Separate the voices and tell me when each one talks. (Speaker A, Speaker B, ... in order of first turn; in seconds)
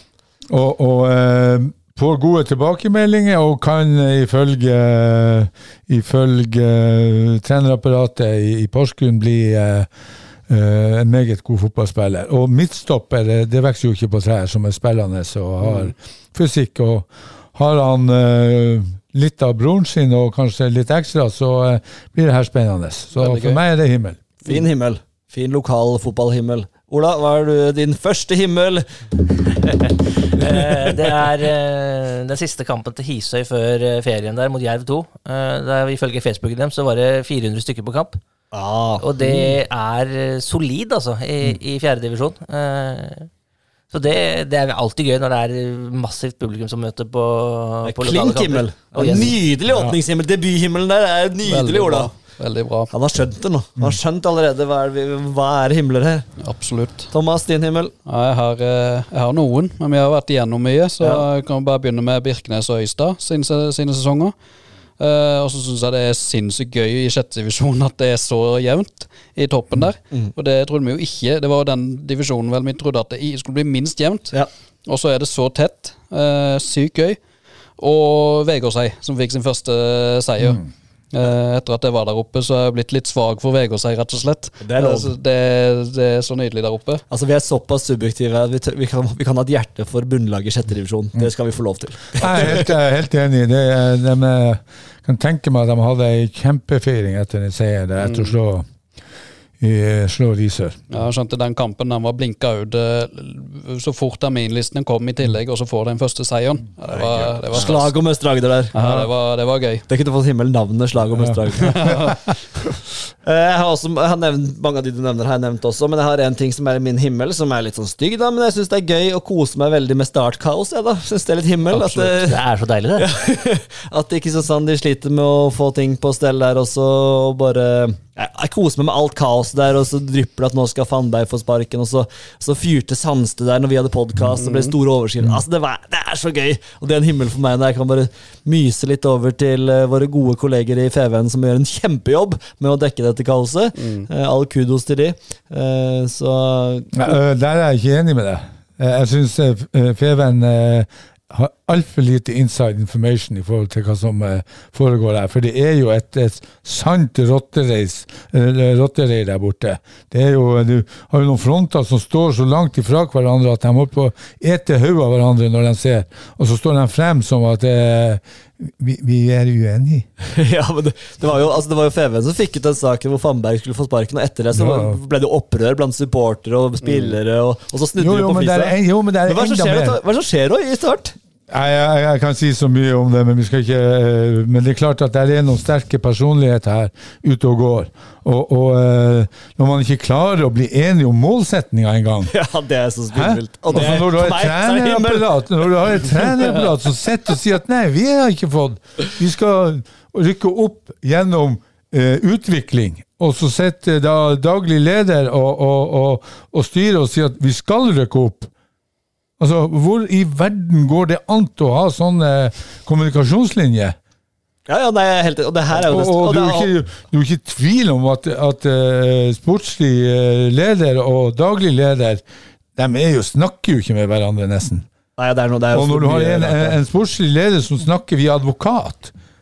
Speaker A: 0.5-9.9, 10.5-24.2, 92.2-98.7, 99.6-100.9, 106.9-107.7, 108.8-109.1, 111.9-112.3, 146.9-170.1, 174.5-175.0, 178.0-180.0, 181.5-192.3, 193.1-208.5, 209.4-213.9, 215.7-222.2, 222.8-224.9, 225.7-229.1
Speaker B: 15.6-15.9, 23.1-23.6, 51.4-52.9, 56.4-57.1, 58.0-64.3, 65.0-74.3, 74.8-77.2, 77.8-87.0, 98.0-98.3, 100.9-108.0, 108.7-109.8, 111.5-112.2, 134.4-134.7, 143.8-144.1, 176.8-177.1
Speaker C: 24.4-29.0, 38.5-39.4, 47.8-52.1, 52.9-56.2, 57.1-57.9, 61.0-61.2, 84.6-85.1, 87.1-92.7, 107.5-108.7, 109.9-111.9, 113.2-122.4, 123.0-147.0, 170.2-181.2, 192.3-195.4, 214.7-216.7, 225.2-226.8
Speaker D: 29.6-38.2, 39.0-43.3, 43.9-49.4, 121.7-123.1